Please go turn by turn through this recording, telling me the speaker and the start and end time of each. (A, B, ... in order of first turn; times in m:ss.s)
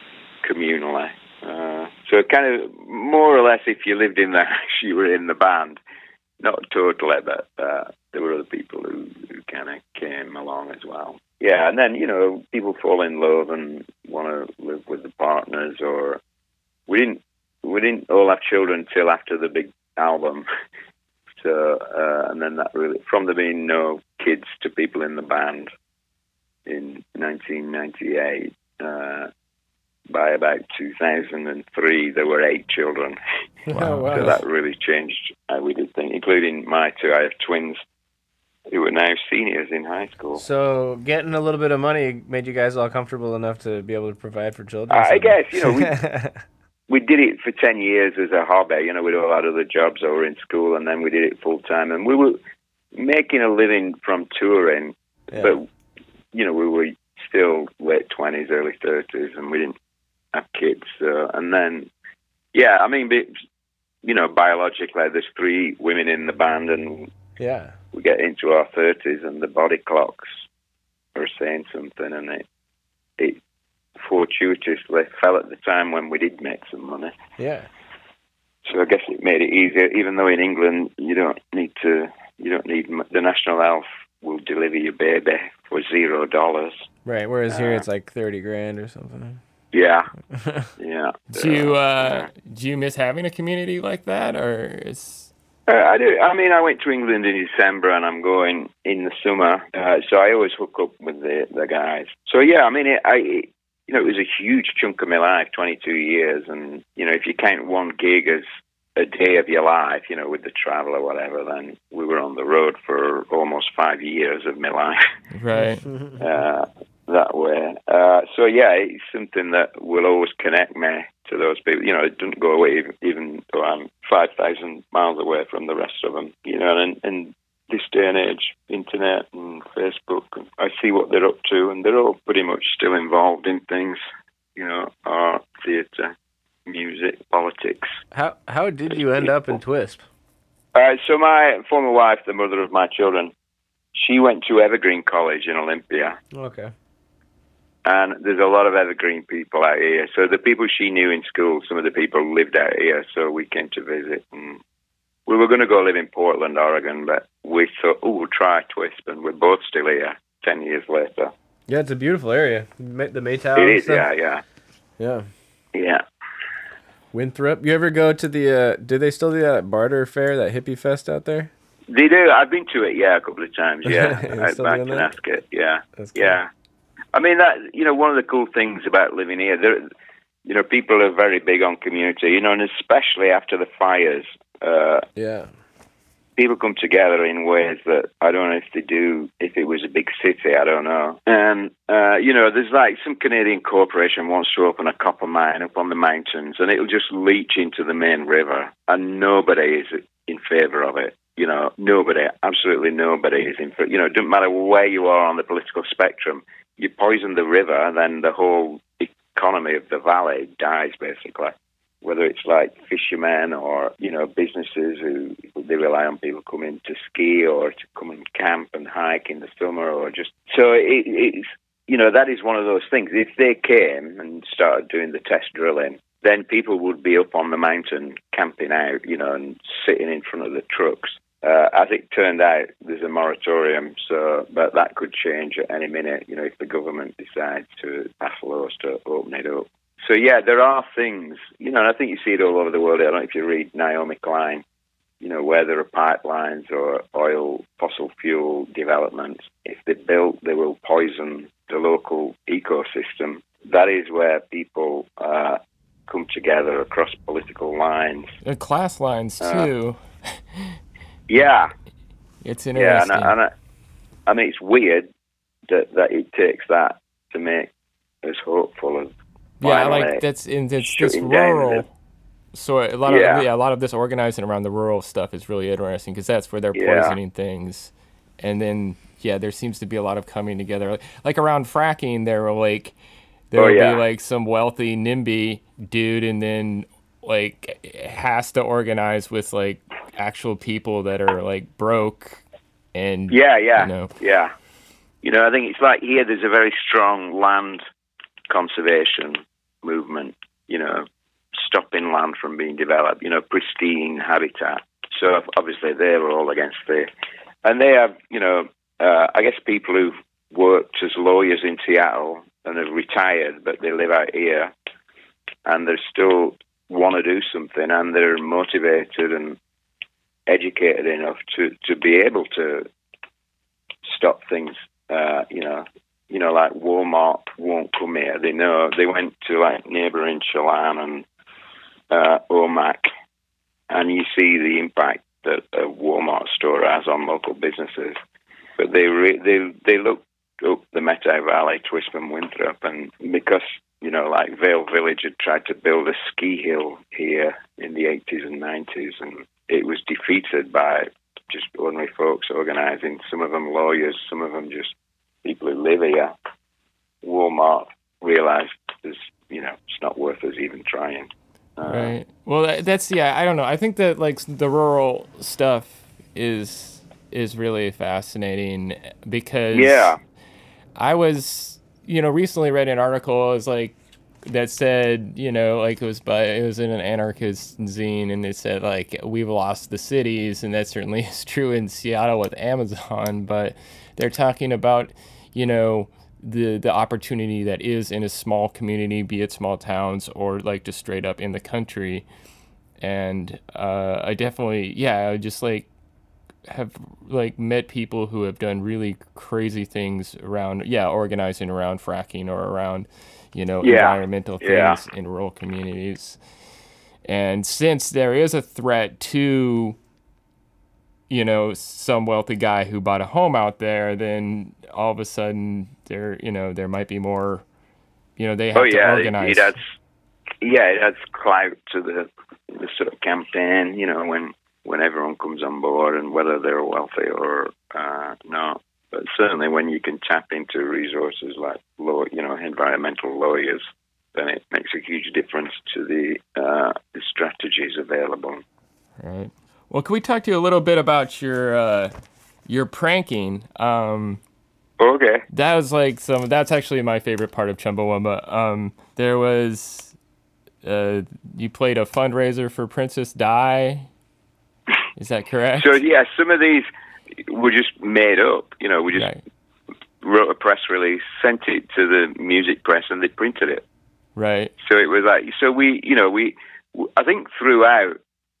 0:00.4-0:05.8 A
0:06.4-0:16.2 A
0:16.9-0:20.4 A
0:21.4-0:25.7 A
0:26.6-0:29.3 A
0:30.1-0:33.2 A
0:33.7-0:34.4 B
0:33.7-0:34.4 C
0:34.1-0:37.8 A
0:38.7-0:40.4 A
0:40.4-0:46.4 B
0:44.9-0:45.9 A
0:46.9-0:52.4 A
0:52.9-0:55.6 A
0:56.3-0:59.8 A
1:00.3-1:01.9 A
1:02.5-1:03.3 A
1:04.0-1:07.1 A
1:07.4-1:07.7 B
1:07.9-1:10.4 A
1:11.1-1:12.4 A
1:14.0-1:17.1 A
1:17.4-1:17.7 B
1:18.6-1:26.8 A
1:27.0-1:29.4 B
1:27.5-1:27.8 A
1:29.7-1:30.1 A
1:30.3-1:30.7 B
1:30.8-1:32.3 A
1:31.3-1:35.3 C
1:35.7-1:48.4 A
1:49.0-1:55.0 A
1:55.3-1:55.9 C
1:56.2-2:14.0 A
2:14.6-2:16.1 A
2:16.6-2:18.0 A
2:18.1-2:20.0 B
2:20.7-2:23.3 A
2:23.9-2:26.2 A
2:26.3-2:26.7 B
2:27.8-2:34.6 A
2:35.3-2:41.3 A
2:41.7-2:44.1 B
2:43.6-2:44.4 A
2:45.0-2:45.3 B
2:45.7-2:46.0 A
2:47.1-2:51.5 B
2:51.9-2:56.5 A
2:53.8-2:55.1 B
2:56.0-2:56.4 B
2:57.1-2:59.8 A
3:00.4-3:05.0 A
3:05.2-3:05.5 B
3:06.4-4:04.6 A
4:05.2-4:18.3 A
4:18.4-4:20.8 C
4:19.4-4:19.7 A
4:21.3-4:21.7 A
4:22.4-4:23.3 C
4:22.7-4:23.5 A
4:24.3-4:25.1 A
4:25.7-4:27.7 A
4:28.2-4:29.1 A
4:29.6-4:31.9 C
4:29.6-4:30.2 A
4:30.8-4:31.8 A
4:32.5-4:42.9 C
4:33.0-4:33.5 A
4:36.7-4:37.2 A
4:43.5-4:52.4 C
4:43.5-4:44.0 A
4:52.9-4:54.1 C
4:53.3-4:54.5 A
4:55.2-4:57.8 A
4:58.5-5:07.1 A
5:07.6-5:14.7 A
5:15.6-5:19.6 A
5:20.5-5:22.9 A
5:24.0-5:31.2 A
5:32.1-5:33.1 A
5:33.9-5:38.2 A
5:38.8-5:56.3 A
5:57.2-6:02.2 A
6:01.8-6:10.1 C
6:09.7-6:10.2 A
6:11.0-6:13.9 C
6:14.4-6:32.2 C
6:33.0-6:35.9 C
6:36.7-6:46.4 C
6:43.8-6:45.0 A
6:47.2-6:50.0 C
6:51.3-6:57.6 C
6:58.4-6:59.8 C
6:58.7-7:00.0 A
7:00.6-7:13.8 A
7:14.3-7:18.6 A
7:19.2-7:22.1 C
7:22.6-7:24.4 C
7:25.0-7:25.4 A
7:25.5-7:30.1 C
7:30.8-7:34.1 C
7:35.2-7:36.0 C
7:35.8-7:36.9 A
7:37.4-7:39.3 A
7:39.1-7:39.4 C
7:40.2-7:43.8 A
7:44.4-7:44.7 C
7:44.8-7:48.2 A